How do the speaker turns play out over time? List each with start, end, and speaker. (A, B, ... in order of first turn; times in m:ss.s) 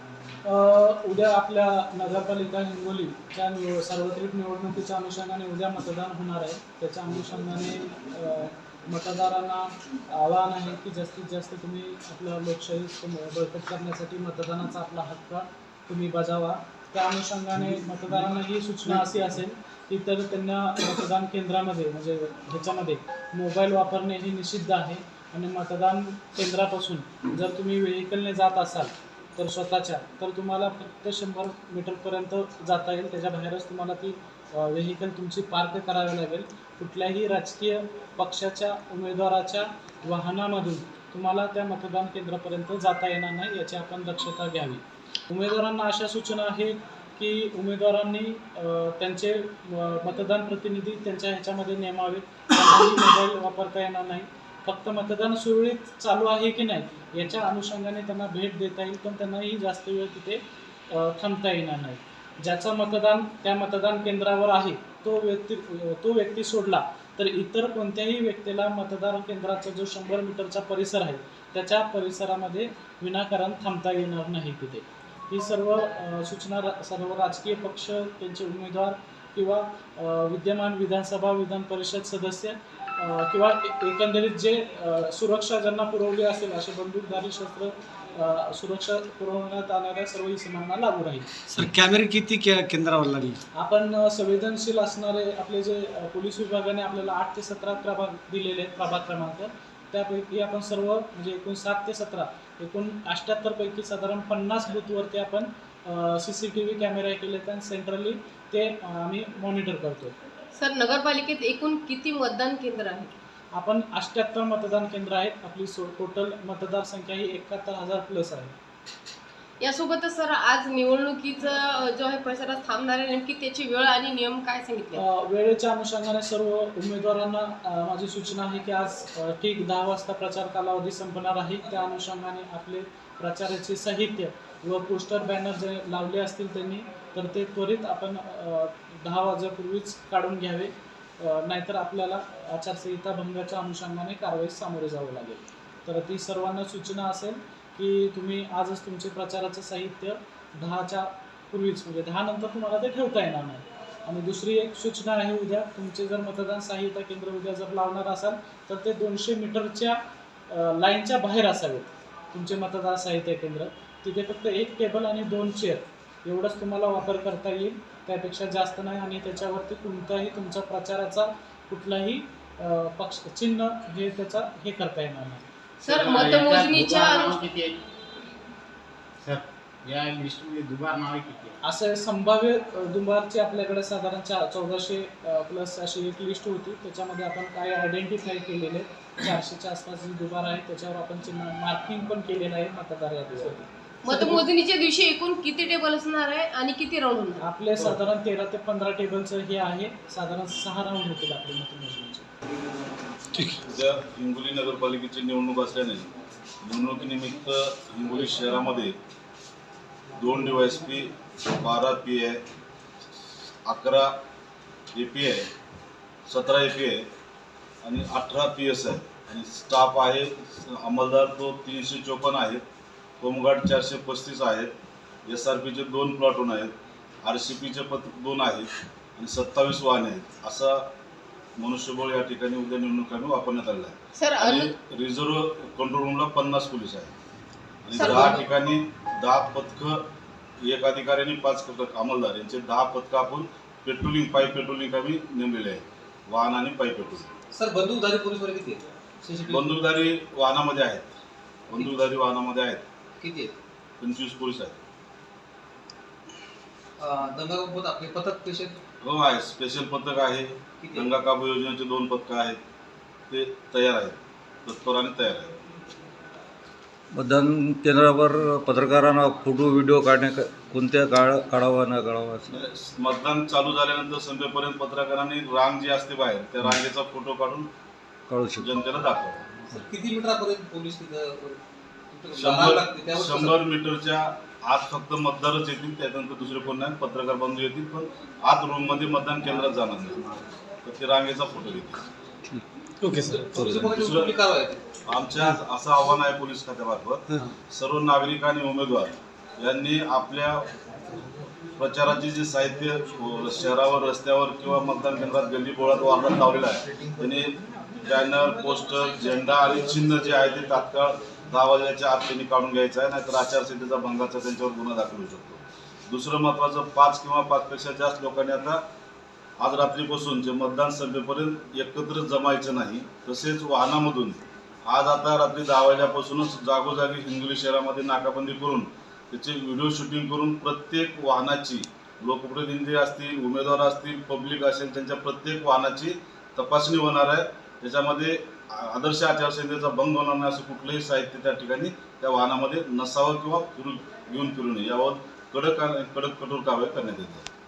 0:00.4-1:31.3 A
1:31.5-1:33.4 B
1:33.6-1:50.2 A
1:50.6-1:53.2 C
1:53.5-1:58.6 A
1:59.6-2:05.0 C
2:05.0-2:55.5 A
2:55.8-2:57.4 C
2:55.9-2:57.8 D
2:59.2-3:01.6 D
3:01.6-3:14.4 A
3:14.0-3:17.4 C
3:17.4-3:22.3 A
3:23.6-3:26.1 E
3:26.6-3:29.0 E
3:30.2-3:32.4 E
3:33.6-3:34.2 E
3:34.9-3:35.5 E
3:36.3-3:37.1 E
3:37.8-3:42.6 E
3:43.2-3:44.7 E
3:45.3-3:50.9 E
3:51.6-3:57.1 E
3:54.2-3:54.7 C
3:57.8-4:00.1 E
3:57.9-3:58.4 C
4:00.6-4:07.3 E
4:07.5-4:09.7 F
4:09.5-4:11.2 E
4:11.7-4:12.8 E
4:11.8-4:12.0 F
4:13.2-4:13.5 F
4:14.0-4:14.8 E
4:17.0-4:18.8 F
4:19.0-4:22.6 E
4:20.8-4:21.1 F
4:23.3-4:25.6 E
4:27.1-4:32.6 G
4:32.5-4:37.7 E
4:38.3-4:38.7 G
4:38.6-4:39.5 E
4:39.7-4:41.6 F
4:42.1-4:43.6 F
4:42.4-4:50.3 E
4:50.8-4:52.0 E
4:53.0-4:53.6 B
4:53.3-4:54.8 F
4:53.7-4:54.4 E
4:55.0-5:00.7 E
5:01.8-5:18.8 E
5:19.6-5:47.5 E